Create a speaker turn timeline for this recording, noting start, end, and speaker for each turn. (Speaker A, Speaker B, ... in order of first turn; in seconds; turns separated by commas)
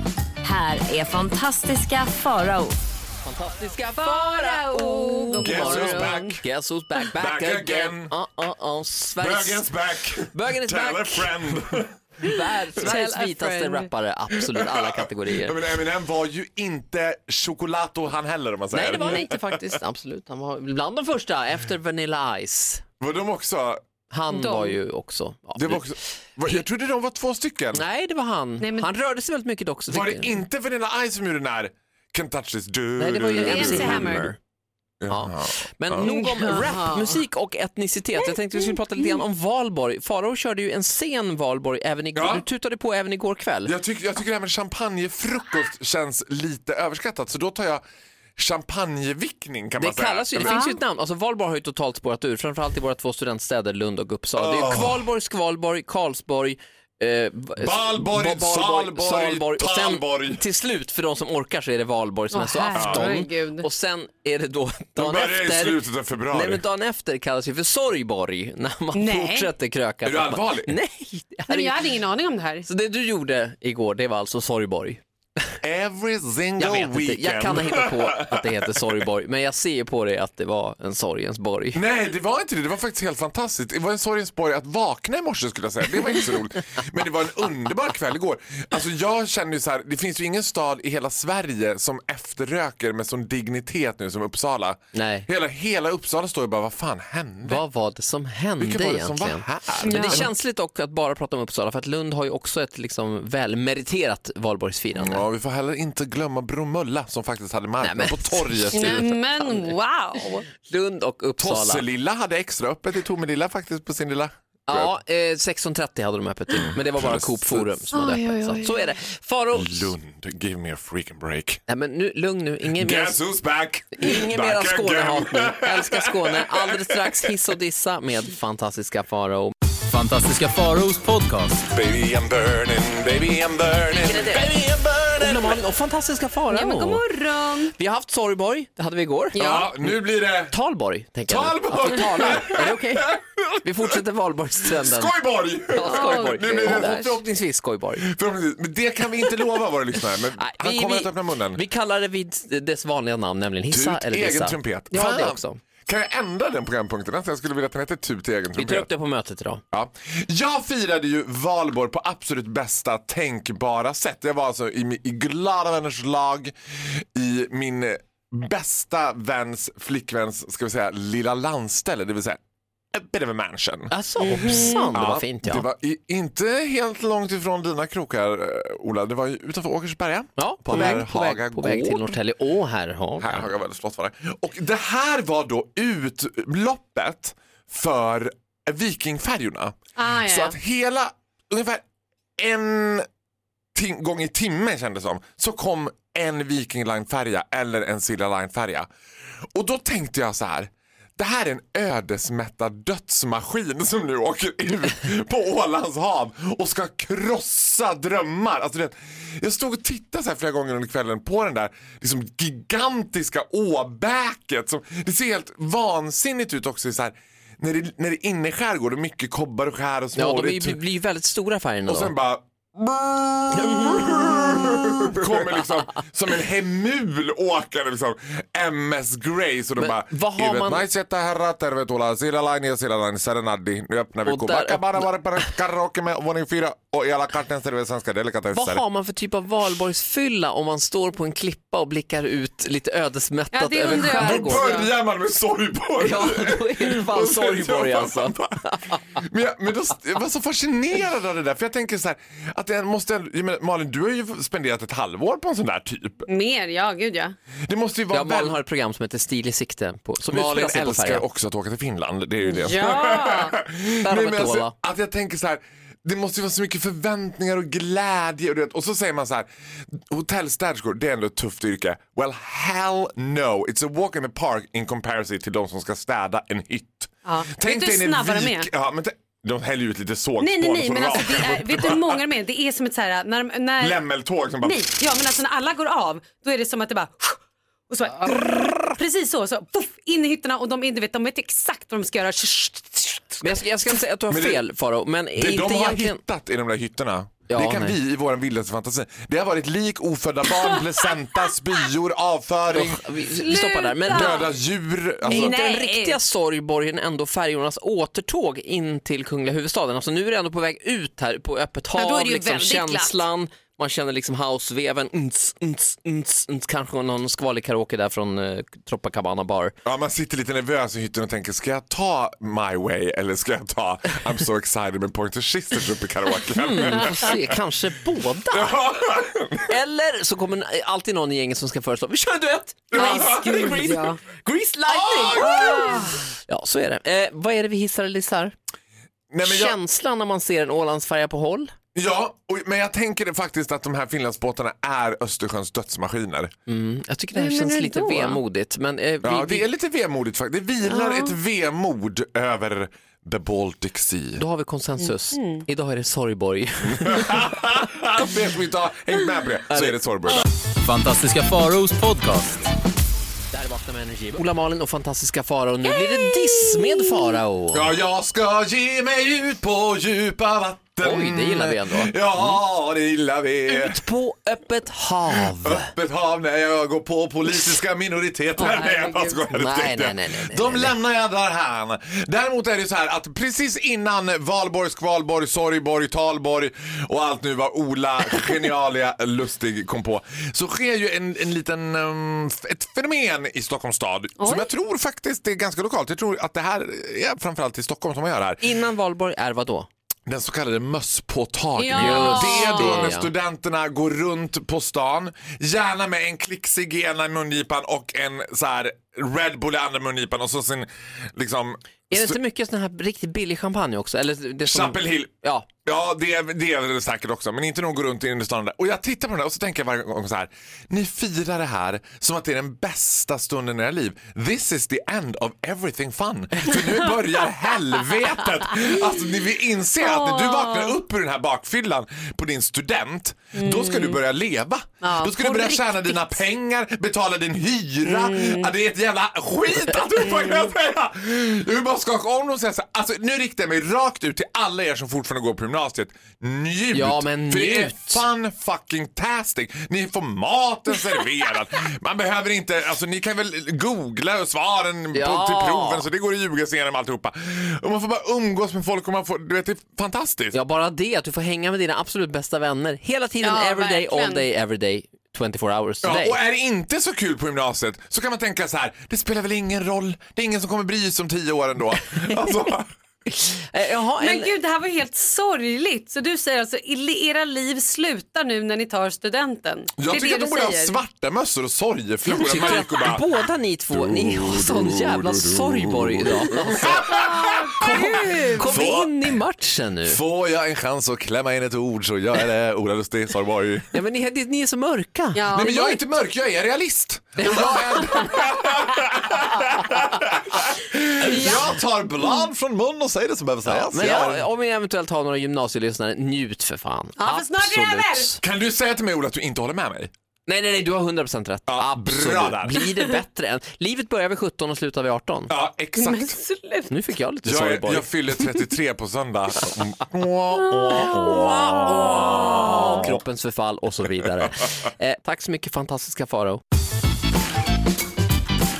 Speaker A: 0.4-2.8, Speaker B: 3.2-9.7, Speaker C: 4.0-6.4, Speaker D: 5.3-6.4, Speaker D: 7.1-8.1, Speaker D: 9.2-12.0, Speaker B: 10.3-11.5, Speaker B: 12.2-15.6, Speaker C: 12.8-13.9, Speaker D: 14.5-19.7, Speaker B: 18.7-22.8, Speaker D: 23.0-23.8, Speaker B: 24.1-26.6, Speaker C: 24.3-24.8, Speaker D: 25.6-27.8, Speaker B: 27.7-30.3, Speaker C: 28.6-28.9, Speaker D: 29.9-34.4, Speaker B: 33.0-34.3, Speaker C: 33.3-34.3, Speaker D: 35.0-36.1, Speaker B: 35.1-43.7, Speaker C: 36.0-37.2, Speaker D: 42.1-42.4, Speaker D: 43.6-47.8, Speaker D: 48.4-50.6, Speaker B: 49.8-71.9, Speaker C: 50.4-50.8, Speaker D: 54.4-55.0, Speaker D: 57.6-60.4, Speaker C: 62.3-63.6, Speaker D: 62.7-63.2, Speaker D: 65.0-66.6, Speaker C: 68.9-69.5, Speaker D: 70.0-70.7, Speaker C: 71.5-72.6, Speaker B: 72.6-75.0, Speaker D: 75.6-78.9, Speaker B: 76.6-81.8, Speaker D: 81.7-97.6, Speaker B: 94.9-95.3, Speaker B: 97.4-105.2, Speaker D: 98.6-100.3, Speaker C: 99.8-100.3, Speaker D: 104.9-109.2, Speaker B: 107.8-109.7, Speaker C: 108.7-110.5, Speaker B: 110.6-111.8, Speaker D: 111.4-114.9, Speaker B: 114.7-119.9, Speaker D: 116.6-117.8, Speaker C: 117.9-118.9, Speaker D: 119.5-121.6, Speaker B: 121.7-123.2, Speaker D: 122.7-127.3, Speaker B: 123.9-129.5, Speaker E: 129.9-131.7, Speaker D: 131.7-135.5, Speaker C: 134.0-134.4, Speaker B: 135.2-137.1, Speaker C: 136.5-137.7, Speaker B: 137.8-143.1, Speaker C: 139.3-139.7, Speaker D: 139.3-140.6, Speaker D: 141.2-143.9, Speaker B: 143.6-145.1, Speaker D: 144.6-147.2, Speaker B: 145.7-148.1, Speaker C: 145.8-146.9, Speaker D: 148.1-151.6, Speaker B: 150.4-155.6, Speaker D: 153.7-158.9, Speaker B: 158.5-159.6, Speaker D: 159.7-172.4, Speaker D: 172.9-182.2, Speaker B: 173.9-175.7, Speaker C: 174.2-174.9, Speaker B: 180.4-183.5, Speaker D: 183.2-191.8, Speaker C: 190.0-190.6, Speaker D: 192.4-193.1, Speaker D: 193.7-198.9, Speaker D: 199.5-220.8, Speaker B: 220.2-222.1, Speaker D: 221.8-238.8, Speaker B: 223.6-225.6, Speaker B: 229.8-230.8, Speaker B: 234.2-235.5, Speaker B: 238.5-244.7, Speaker C: 243.5-244.9, Speaker D: 243.8-256.2, Speaker B: 246.0-249.0, Speaker C: 256.3-257.4, Speaker D: 257.6-258.6, Speaker B: 258.1-261.2, Speaker D: 260.3-282.2, Speaker C: 262.5-263.5, Speaker B: 264.0-264.7, Speaker C: 277.2-278.7, Speaker C: 280.4-284.1, Speaker D: 283.8-284.9, Speaker C: 284.6-287.4, Speaker C: 287.9-293.6, Speaker D: 288.2-288.6, Speaker B: 293.4-296.2, Speaker D: 294.3-294.6, Speaker D: 295.4-303.0, Speaker B: 297.5-297.9, Speaker B: 302.7-304.4, Speaker C: 303.4-304.5, Speaker D: 304.1-305.5, Speaker C: 305.2-306.2, Speaker B: 305.3-319.7, Speaker C: 311.9-313.2, Speaker D: 319.8-327.5, Speaker B: 326.6-328.8, Speaker D: 328.5-329.7, Speaker B: 329.7-338.5, Speaker D: 332.9-333.8, Speaker C: 332.9-334.2, Speaker D: 334.9-336.1, Speaker C: 335.4-336.3, Speaker D: 339.3-339.8, Speaker B: 339.4-341.7, Speaker D: 341.9-346.5, Speaker B: 346.7-349.6, Speaker C: 347.3-348.4, Speaker D: 349.2-354.4, Speaker C: 350.9-351.4, Speaker B: 354.4-357.6, Speaker C: 355.0-355.6, Speaker D: 356.9-360.5, Speaker B: 359.7-360.0, Speaker E: 360.8-362.7, Speaker B: 363.5-367.9, Speaker C: 366.5-366.9, Speaker D: 367.7-374.0, Speaker B: 371.0-372.6, Speaker B: 373.7-375.9, Speaker D: 375.3-398.6, Speaker C: 378.6-379.4, Speaker B: 379.5-380.9, Speaker C: 394.4-394.7, Speaker B: 398.6-399.9, Speaker D: 400.3-412.4, Speaker C: 401.8-403.1, Speaker B: 401.9-403.3, Speaker B: 412.1-415.7, Speaker D: 414.6-460.6, Speaker C: 430.0-431.0, Speaker C: 433.5-434.2, Speaker C: 435.0-436.4, Speaker C: 438.0-438.7, Speaker C: 440.1-440.7, Speaker B: 446.9-448.2, Speaker B: 455.1-456.1, Speaker B: 460.5-466.4, Speaker C: 463.4-464.4, Speaker D: 466.0-472.9, Speaker B: 473.3-474.5, Speaker C: 474.2-481.0, Speaker D: 480.0-483.2, Speaker B: 482.2-486.9, Speaker D: 483.9-489.3, Speaker C: 487.1-488.7, Speaker B: 487.8-490.2, Speaker D: 490.1-493.9, Speaker B: 493.9-495.6, Speaker C: 495.3-496.0, Speaker D: 495.5-504.4, Speaker B: 497.4-498.0, Speaker C: 501.2-501.7, Speaker B: 503.6-508.4, Speaker C: 507.2-508.3, Speaker D: 508.4-510.1, Speaker B: 510.5-515.5, Speaker D: 511.7-512.8, Speaker D: 515.5-516.4, Speaker C: 516.0-516.9, Speaker B: 516.9-518.1, Speaker D: 517.4-523.2, Speaker C: 520.5-523.0, Speaker B: 521.2-526.6